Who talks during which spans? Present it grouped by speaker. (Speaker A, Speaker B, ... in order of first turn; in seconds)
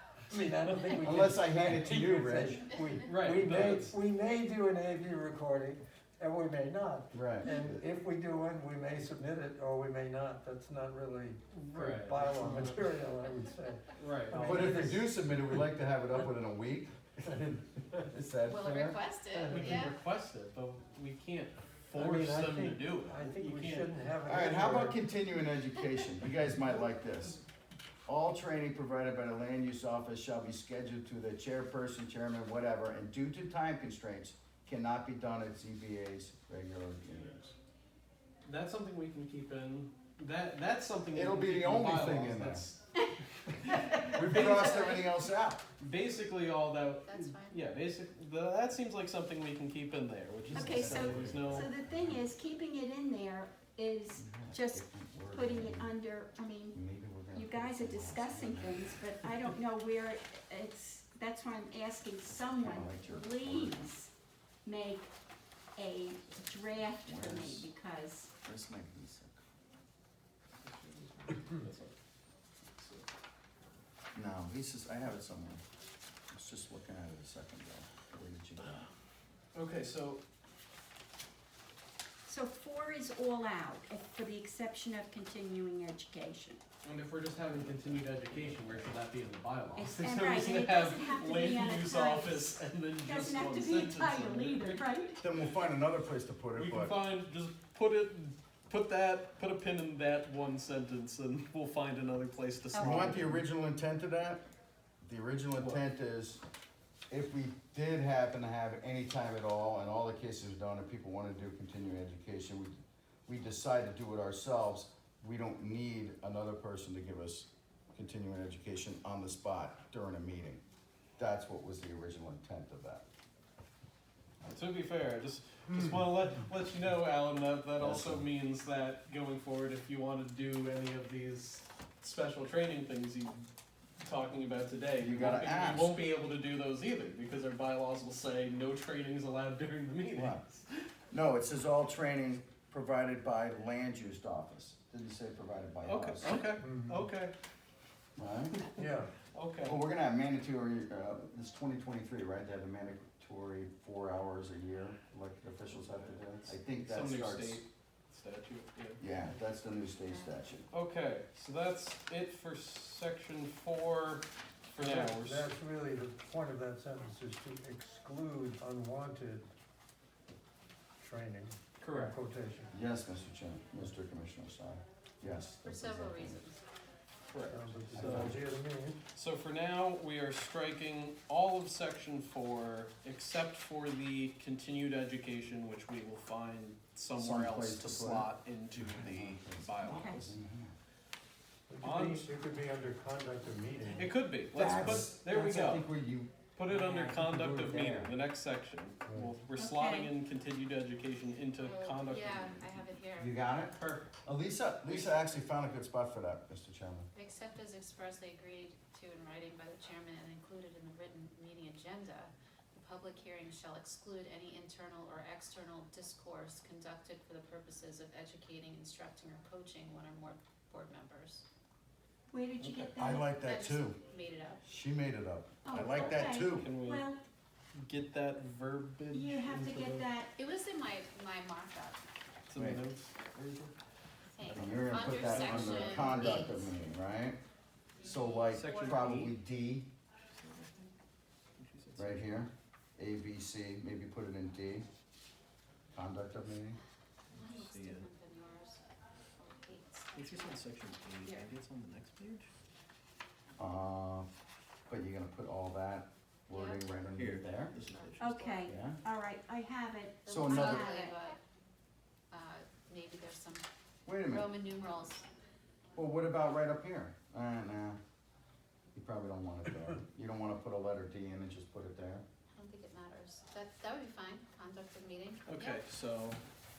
Speaker A: 0.3-15.1, 21.9-25.0, 146.6-147.0, 148.8-149.1, 164.8-169.5, 171.0-172.7, 177.5-179.0, 191.7-194.1, 199.1-199.3
Speaker B: 0.7-1.0, 3.0-4.0, 11.7-12.8, 13.9-14.7, 19.4-23.9, 38.4-45.1, 45.8-51.7, 70.6-72.0, 72.8-73.0, 79.5-80.2, 86.8-94.8, 96.5-103.4, 124.5-133.5, 134.0-140.8, 145.8-147.3, 148.6-149.8, 156.4-159.0, 160.7-165.5, 171.8-172.2, 177.3-178.3, 179.1-190.3, 191.8-192.3, 193.9-195.8, 196.5-202.8, 203.8-204.2, 204.8-205.3, 222.6-222.9, 225.9-227.1, 227.7-230.1, 232.5-233.7, 234.6-236.5, 238.5-239.4, 240.3-240.9, 241.6-242.2, 247.3-248.1, 250.2-252.5, 257.1-258.3, 275.4-276.4
Speaker C: 1.0-2.6, 7.1-7.8, 14.4-19.0, 24.2-27.4, 28.1-37.5, 41.1-42.7, 44.0-45.6, 50.5-52.3, 54.1-56.0, 56.7-59.0, 62.6-63.9, 66.8-67.7, 68.4-69.4, 74.1-75.6, 76.3-78.8, 95.2-97.0, 102.8-104.4, 105.0-106.4, 107.1-120.6, 121.2-123.0, 127.8-128.3, 135.0-136.0, 140.1-140.4, 141.1-146.5, 148.2-148.7, 149.6-157.6, 159.0-160.7, 172.7-176.4, 177.9-178.4, 187.1-190.7, 194.5-198.1, 203.2-207.1, 222.9-224.0, 224.6-226.7, 232.5-232.8, 234.5-237.4, 238.0-239.9, 242.0-244.9, 245.9-246.8, 253.6-254.3, 254.9-257.7, 258.6-259.0, 260.3-260.9, 264.1-264.5, 265.9-268.0, 268.9-272.2
Speaker D: 18.4-19.9, 47.0-47.6, 102.7-103.1, 175.6-176.6, 201.6-203.6, 207.1-221.4, 223.4-224.6, 230.4-232.0, 234.3-236.7, 238.0-239.1, 247.4-248.8, 249.4-250.7, 251.2-251.5, 256.5-256.9, 257.8-258.7, 260.2-261.4, 262.3-263.6, 264.3-265.3, 272.5-275.8
Speaker E: 50.5-56.8, 57.3-64.1, 64.6-65.1, 65.8-68.3, 82.2-86.6, 89.8-95.2, 189.9-190.2, 199.6-200.1, 222.3-223.3, 225.6-227.2, 229.1-230.3, 258.2-261.1